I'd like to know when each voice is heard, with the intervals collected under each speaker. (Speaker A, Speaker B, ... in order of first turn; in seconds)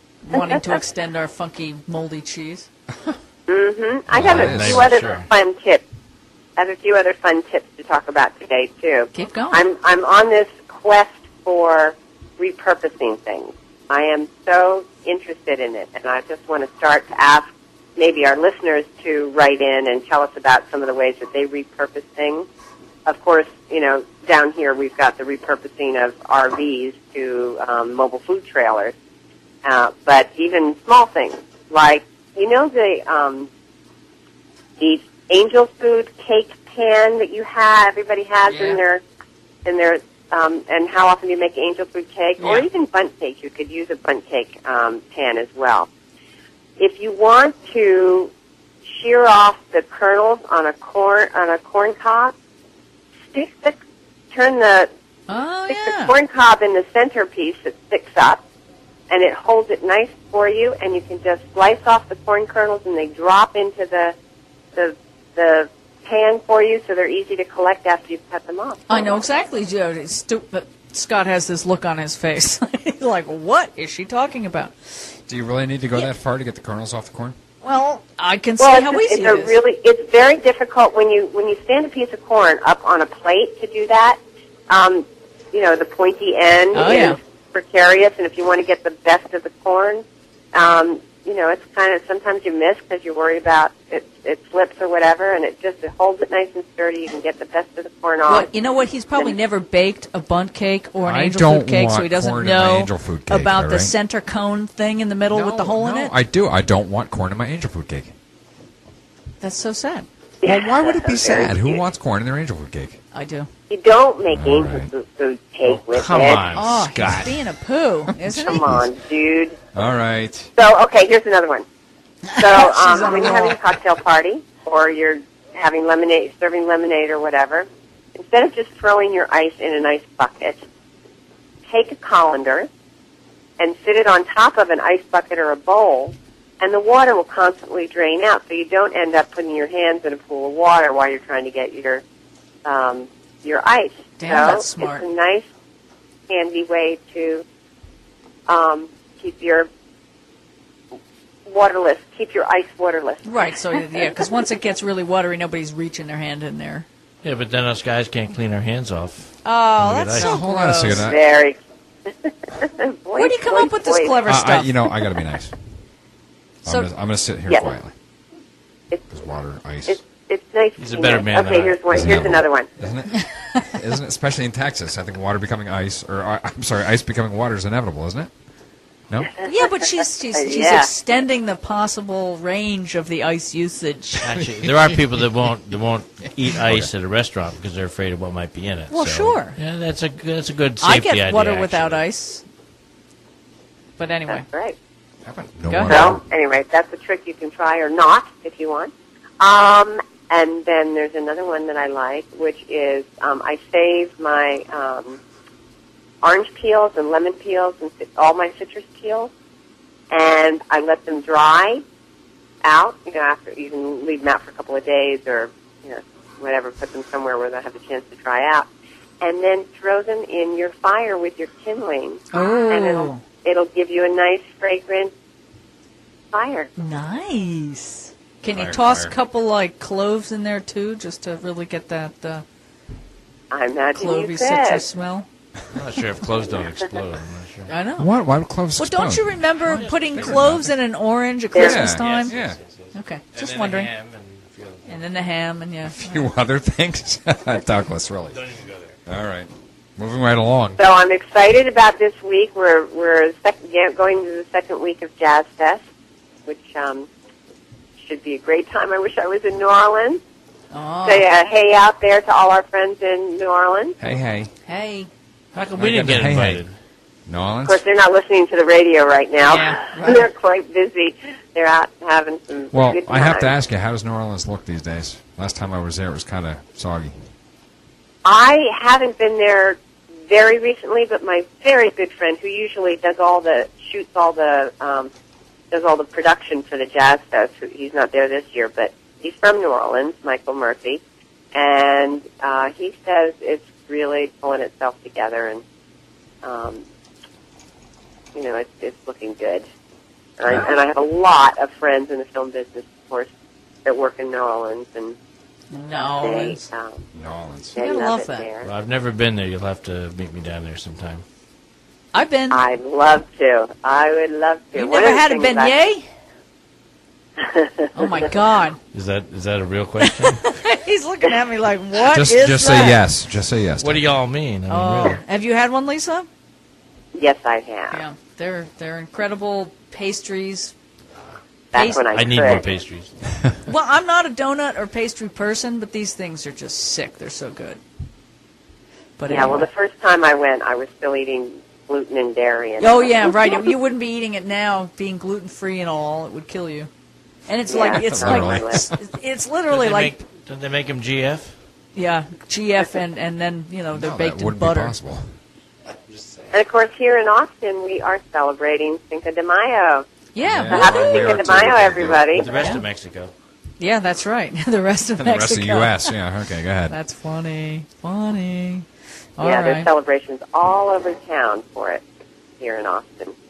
Speaker A: 0.2-2.7, 9.1-9.6, 38.5-38.8, 42.4-42.7, 55.3-56.1, 68.9-75.0, 77.6-79.6, 86.7-87.2, 98.3-106.2, 109.4-110.1, 113.1-113.5, 116.5-118.7, 122.2-123.6, 144.2-145.1, 153.2-156.8, 159.4-161.1, 163.2-164.9, 179.4-184.4, 188.9-189.6, 190.8-192.4, 194.0-194.4, 195.7-196.0, 222.3-223.2, 226.8-232.4, 233.9-235.3, 237.7-238.1, 238.8-242.3, 242.9-243.9, 244.9-246.2, 260.7-261.2, 264.6-265.1, 269.5-270.2, 305.7-306.6, 307.8-308.5, 312.1-312.6, 314.7-316.1, 317.9-318.8, 320.0-323.0, 324.7-326.3, 327.9-330.7, 331.7-332.0, 333.6-337.8, 339.2-339.7, 342.8-346.9, 347.5-350.2, 351.9-354.9, 360.3-361.4, 362.5-362.8, 363.8-366.1, 366.9-368.9, 369.4-369.9
Speaker B: 3.5-5.8, 6.5-22.4, 23.1-28.9, 29.6-33.5, 34.8-39.0, 39.6-45.9, 46.8-48.3, 48.9-52.3, 53.3-53.8, 54.3-54.9, 55.7-58.4, 59.1-64.2, 64.7-68.9, 78.6-98.5, 110.4-111.8, 113.7-116.4, 118.4-119.6, 120.5-121.7, 122.3-130.6, 131.7-132.7, 133.6-142.0, 142.6-145.5, 146.3-147.4, 148.5-149.7, 151.4-153.2, 160.8-164.2, 169.9-172.7, 180.3-180.9, 194.3-194.8, 195.9-205.2, 206.2-209.3, 210.1-211.8, 212.6-218.7, 219.2-225.1, 226.3-226.7, 233.5-234.8, 241.5-241.8, 250.8-255.8, 256.4-257.1, 258.0-260.2, 261.0-263.9, 267.6-273.5, 278.2-285.1, 285.7-291.0, 291.5-295.6, 296.4-296.8, 298.3-299.6, 300.4-303.3, 303.8-305.1, 306.1-307.0, 307.7-308.7, 312.5-315.7, 317.4-317.7, 327.1-328.0, 331.7-332.6, 339.3-343.3, 347.7-348.8, 356.5-360.1, 360.7-362.5, 369.4-372.0, 372.6-373.3
Speaker C: 4.1-5.0, 75.3-77.3, 101.0-103.9, 105.3-108.1, 110.4-113.0, 114.3-114.9, 117.0-117.3, 118.1-118.9, 119.7-120.5, 160.1-161.2, 164.2-165.6, 166.6-167.9, 169.1-170.0, 171.9-178.3, 186.4-186.9, 195.2-196.2, 228.8-229.1, 238.0-239.4, 240.1-240.7, 241.5-242.6, 245.9-248.4, 249.1-250.8, 264.0-264.5, 265.8-266.6, 267.3-267.8, 272.7-277.1, 307.1-307.8, 322.0-324.1, 347.9-348.9, 353.9-355.4, 360.4-362.5, 365.2-366.9
Speaker D: 4.1-5.3, 115.7-117.3, 157.2-160.4, 170.8-172.3, 184.2-192.0, 228.5-229.0, 235.7-237.7, 239.6-240.5, 241.8-245.0, 248.3-249.0, 265.5-266.7, 308.6-311.2, 318.9-320.4, 323.8-325.2, 331.8-333.1, 349.7-351.6, 356.1-356.5, 362.3-363.3